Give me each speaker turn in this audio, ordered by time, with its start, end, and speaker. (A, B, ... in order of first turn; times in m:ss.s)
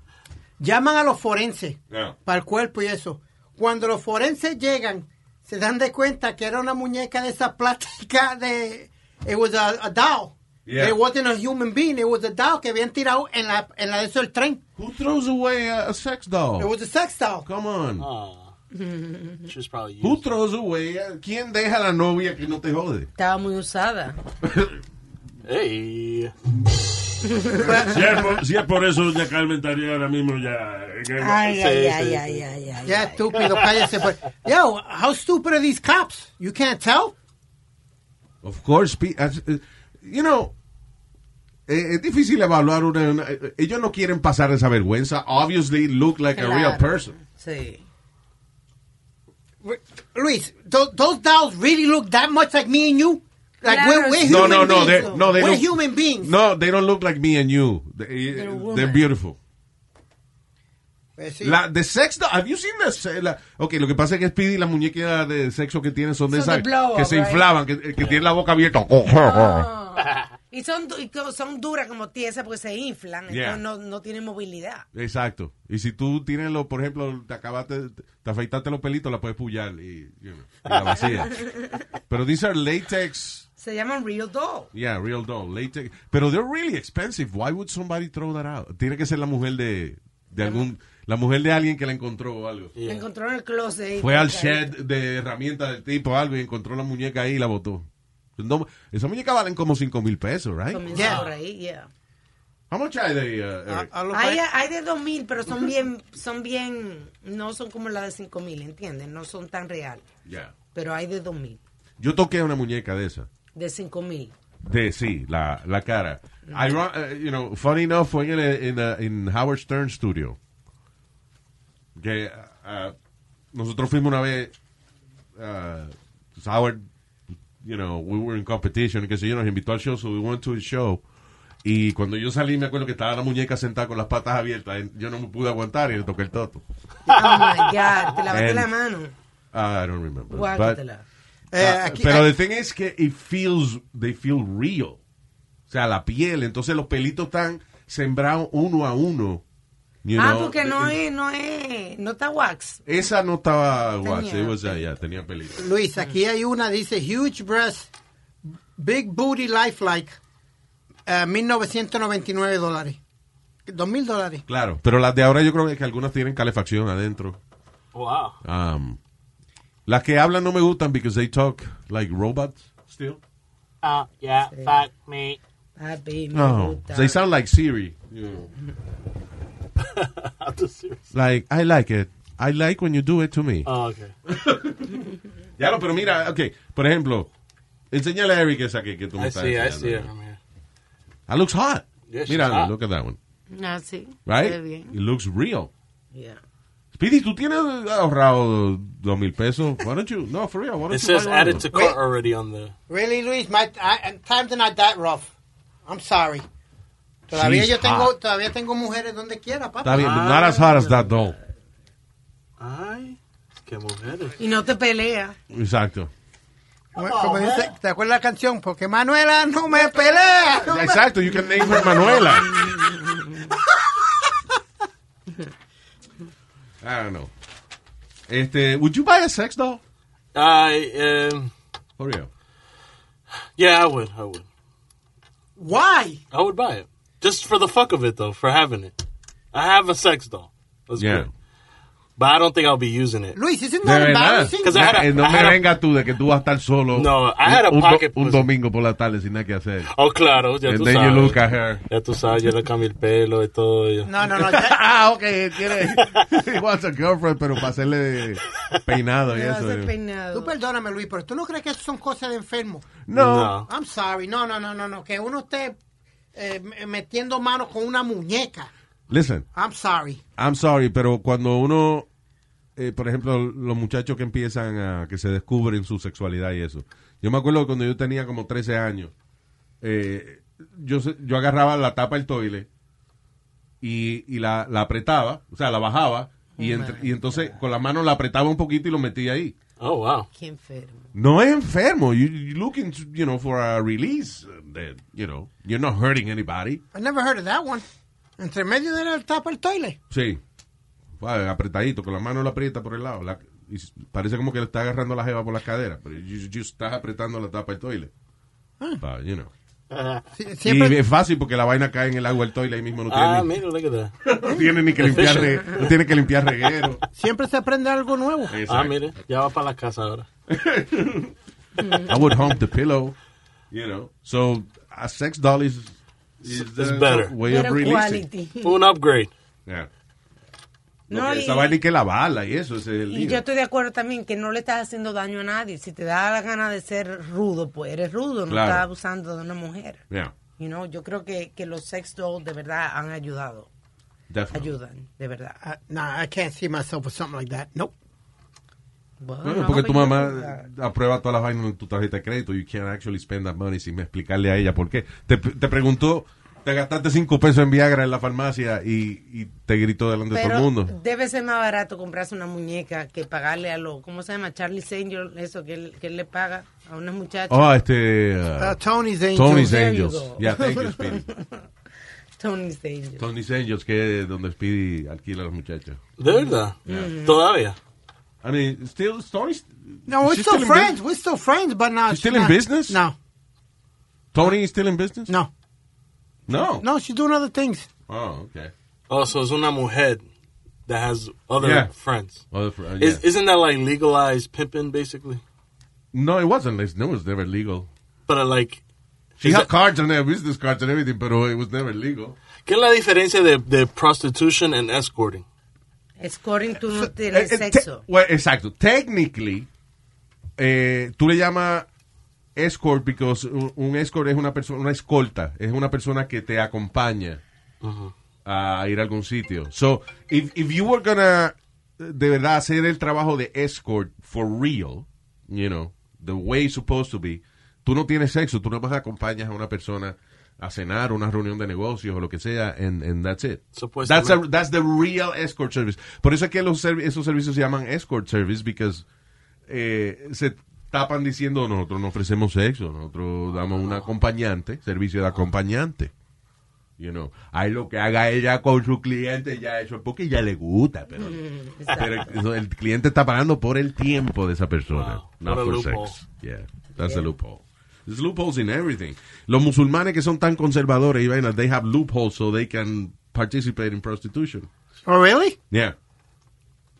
0:00.6-0:14.6 A
0:01.9-0:02.2 B
0:10.6-0:11.0 B
0:14.8-0:16.7 B
0:16.6-0:17.4 A
0:17.4-0:18.1 B
0:18.0-0:18.5 C
0:18.7-0:19.5 D
0:19.5-0:20.2 C
0:20.0-0:23.1 B
0:23.2-0:24.2 D
0:24.4-0:24.7 B
0:25.4-0:26.3 C
0:27.3-0:27.7 D
0:27.6-0:28.4 A
0:27.6-0:31.4 E
0:31.2-0:33.2 D
0:31.4-0:32.4 C
0:32.8-0:37.1 A
0:38.4-0:40.5 B
0:41.7-0:47.1 B
0:46.3-0:47.8 D
0:49.6-0:56.3 A
0:53.6-0:55.3 D
0:54.2-0:59.4 B
0:58.3-0:59.1 D
1:01.2-1:01.6 A
1:01.4-1:09.7 B
1:06.3-1:07.5 D
1:09.2-1:14.8 D
1:13.3-1:13.6 B
1:14.9-1:21.5 B
1:21.2-1:21.7 D
1:22.1-1:23.4 B
1:23.6-1:24.7 D
1:24.7-1:32.7 B
1:30.4-1:30.6 D
1:32.8-1:33.0 C
1:32.8-1:34.7 D
1:34.0-1:41.1 B
1:40.7-1:41.9 D
1:40.9-1:41.2 A
1:41.0-1:41.3 C
1:42.7-1:43.9 B
1:43.7-1:44.4 A
1:44.1-1:50.0 D
1:50.2-1:50.5 B
1:50.7-1:51.6 D
1:52.0-1:53.3 B
1:53.5-1:54.3 D
1:54.6-2:00.4 B
2:02.0-2:02.9 B
2:03.5-2:04.5 B
2:05.4-2:06.9 B
2:07.6-2:11.0 B
2:11.6-2:16.6 B
2:17.1-2:19.1 D
2:18.3-2:18.7 B
2:19.5-2:20.8 B
2:20.3-2:21.0 D
2:21.5-2:22.3 A
2:21.5-2:25.0 B
2:25.7-2:29.4 B
2:30.0-2:31.0 B
2:30.2-2:32.8 D
2:32.8-2:35.6 B
2:34.0-2:34.8 D
2:35.6-2:37.9 A
2:38.8-2:40.2 A
2:41.1-2:43.0 A
2:43.7-2:44.4 A
2:44.5-2:47.4 B
2:47.9-2:48.4 C
2:48.4-2:49.0 B
2:49.8-2:53.2 B
2:53.8-2:55.4 C
2:54.5-2:54.7 D
2:55.8-2:57.2 D
2:56.3-2:58.5 B
2:59.8-3:01.0 C
3:01.1-3:03.7 B
3:03.6-3:04.1 C
3:04.2-3:07.3 B
3:07.9-3:10.1 B
3:09.2-3:10.4 C
3:11.3-3:13.2 B
3:12.1-3:12.7 C
3:13.5-3:14.9 D
3:14.2-3:15.7 B
3:16.1-3:16.4 D
3:16.9-3:21.6 B
3:20.9-3:22.7 C
3:22.9-3:25.3 A
3:25.8-3:26.4 A
3:27.3-3:30.4 A
3:27.3-3:28.1 B
3:29.8-3:31.4 B
3:30.0-3:30.9 C
3:32.6-3:34.4 C
3:34.4-3:35.4 D
3:35.5-3:36.1 B
3:37.0-3:41.0 A
3:40.6-3:42.6 B
3:46.8-3:47.3 B
3:48.3-3:49.8 B
3:50.3-3:51.5 C
3:52.0-3:52.3 B
3:53.6-3:54.4 C
3:55.6-3:56.2 A
3:56.3-3:59.0 C
3:59.5-4:01.3 C
4:01.0-4:01.3 B
4:02.2-4:03.4 C
4:03.3-4:05.0 A
4:03.8-4:09.9 B
4:04.6-4:05.6 C
4:06.9-4:08.5 C
4:09.9-4:14.1 C
4:10.6-4:11.8 B
4:14.0-4:14.8 A
4:14.3-4:19.9 B
4:15.9-4:16.2 C
4:19.3-4:20.5 D
4:20.3-4:23.0 A
4:23.0-4:23.6 B
4:23.1-4:23.7 C
4:23.7-4:25.8 A
4:26.3-4:28.7 A
4:29.1-4:29.4 B
4:29.5-4:30.2 A
4:30.4-4:32.1 B
4:32.8-4:39.1 B
4:39.8-4:42.7 B
4:43.8-4:49.5 B
4:46.6-4:47.6 D
4:49.8-4:50.3 C
4:50.3-4:51.1 D
4:51.1-4:56.8 B
4:56.9-4:57.8 A
4:58.4-5:00.0 A
5:00.1-5:00.4 B
5:01.2-5:08.1 B
5:09.0-5:09.5 B
5:09.9-5:10.2 C
5:10.4-5:11.0 A
5:10.6-5:13.5 B
5:13.1-5:14.1 C
5:14.2-5:17.0 B
5:15.0-5:15.9 C
5:17.2-5:18.6 A
5:18.5-5:19.0 B
5:18.7-5:20.3 C
5:20.5-5:21.3 B
5:22.0-5:23.1 B
5:23.7-5:28.2 B
5:26.4-5:27.3 C
5:27.4-5:28.8 D
5:28.6-5:29.3 C
5:31.1-5:31.8 D
5:31.1-5:33.4 B
5:33.1-5:40.0 D
5:38.5-5:38.8 B
5:40.6-5:43.7 D
5:44.3-5:44.7 B
5:44.5-5:45.6 D
5:45.6-5:47.9 A
5:49.2-5:50.6 D
5:49.4-6:00.9 B
6:00.3-6:07.7 D
6:07.5-6:08.8 B
6:08.6-6:09.7 A
6:09.3-6:11.3 B
6:09.4-6:11.6 D
6:12.4-6:13.2 D
6:13.2-6:16.0 B
6:16.2-6:17.8 C
6:16.8-6:17.4 D
6:18.4-6:21.0 B
6:20.1-6:23.1 A
6:22.1-6:23.0 B
6:24.3-6:25.3 B
6:26.5-6:26.8 B
6:26.8-6:27.9 A
6:28.1-6:28.7 B
6:29.1-6:30.2 C
6:30.9-6:32.4 C
6:31.6-6:31.9 B
6:32.5-6:33.2 B
6:33.0-6:35.4 C
6:36.1-6:37.9 B
6:38.3-6:38.8 C
6:39.4-6:39.7 C
6:39.4-6:42.4 B
6:42.6-6:45.4 C
6:46.2-6:48.0 D
6:46.9-6:49.7 B
6:50.6-6:51.9 B
6:52.6-6:57.4 B
6:57.8-6:58.1 C
6:58.4-7:19.0 B
7:13.8-7:14.4 C
7:19.7-7:26.1 B
7:27.0-7:44.7 B
7:31.2-7:32.3 D
7:34.9-7:36.2 C
7:45.0-7:45.6 A